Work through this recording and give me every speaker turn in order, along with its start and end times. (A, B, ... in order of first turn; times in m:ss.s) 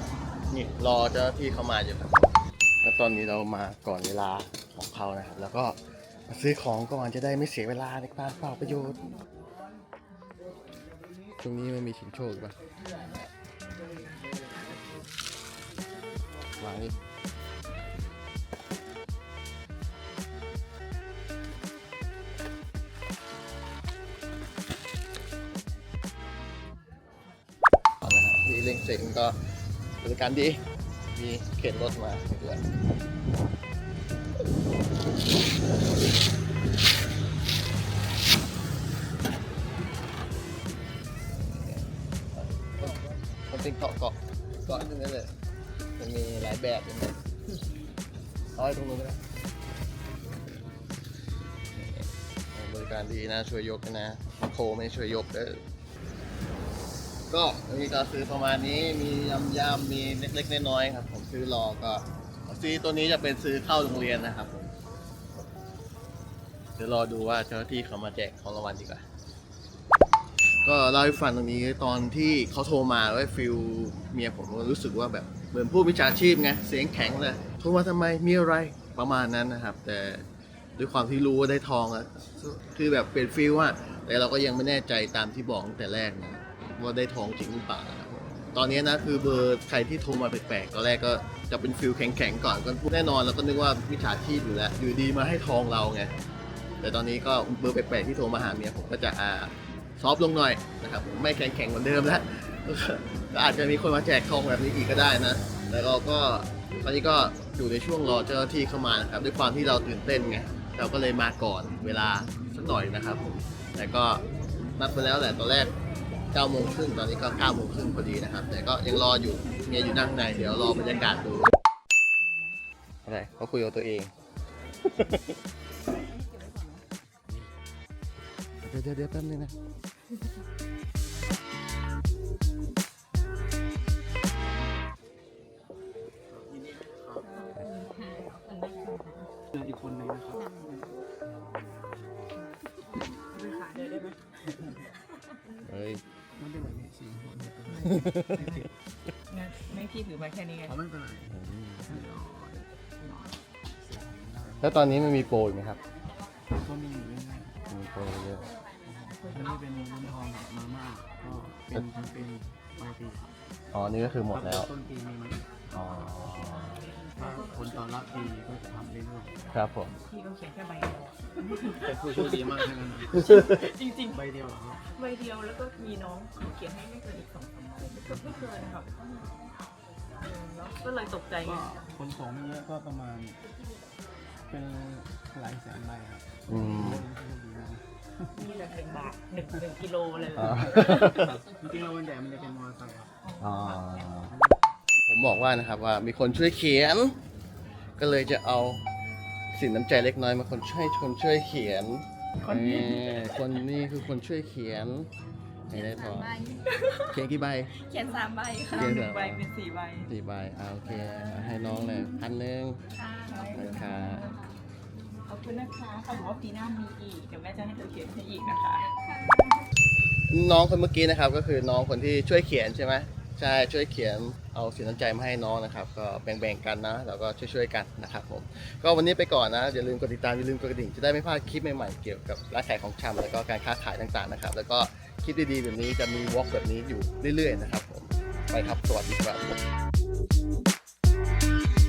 0:00.5-0:05.8 A
0:06.3-0:09.2 A
0:11.4-0:12.6 A
0:13.8-0:14.1 B
0:16.6-0:16.9 A
0:28.0-0:29.4 A
0:30.0-0:32.6 A
0:41.3-0:45.3 A
0:46.0-0:47.2 A
0:48.5-0:49.2 A
0:51.7-0:55.6 A
0:57.3-1:04.7 A
1:06.8-1:09.0 A
1:10.6-1:20.2 A
1:20.8-1:36.1 A
1:36.8-1:54.2 A
1:54.8-1:55.7 A
1:56.3-2:01.5 A
2:03.0-2:04.1 A
2:04.9-2:05.3 A
2:06.2-2:06.7 B
2:08.6-2:09.5 A
2:16.3-2:17.5 C
2:17.4-2:19.3 B
2:19.5-2:20.9 C
2:21.5-2:21.9 C
2:23.3-2:24.2 B
2:25.6-2:26.0 A
2:26.3-2:28.7 C
2:27.8-2:28.7 B
2:27.8-2:28.4 A
2:29.3-2:30.7 B
2:30.6-2:35.2 C
2:31.3-2:31.9 A
2:34.6-2:35.8 A
2:36.5-2:37.6 C
2:37.7-2:38.5 A
2:38.8-2:43.3 C
2:43.7-2:44.7 A
2:44.3-2:45.5 C
2:45.7-2:46.8 A
2:47.0-2:47.6 B
2:47.2-2:49.3 C
2:49.5-2:50.0 A
2:50.0-2:52.0 B
2:51.7-2:53.5 C
2:52.6-2:54.2 B
2:54.1-2:54.8 C
2:54.9-2:58.9 B
3:00.1-3:01.7 B
3:01.4-3:03.4 C
3:04.5-3:08.3 C
3:06.5-3:07.0 A
3:08.3-3:11.2 B
3:10.4-3:11.3 A
3:10.5-3:13.1 C
3:13.2-3:14.1 B
3:13.4-3:14.3 A
3:14.3-3:14.6 C
3:15.1-3:17.2 A
3:18.0-3:18.8 A
3:19.5-3:25.1 A
3:22.4-3:23.6 B
3:25.7-3:26.4 A
3:25.7-3:26.7 D
3:27.1-3:27.8 A
3:27.8-3:28.8 D
3:27.9-3:30.1 B
3:28.7-3:29.5 A
3:30.0-3:32.8 A
3:33.0-3:33.6 D
3:33.0-3:34.5 B
3:33.4-3:34.3 A
3:35.3-3:38.9 B
3:39.0-3:39.6 D
3:40.3-3:59.6 A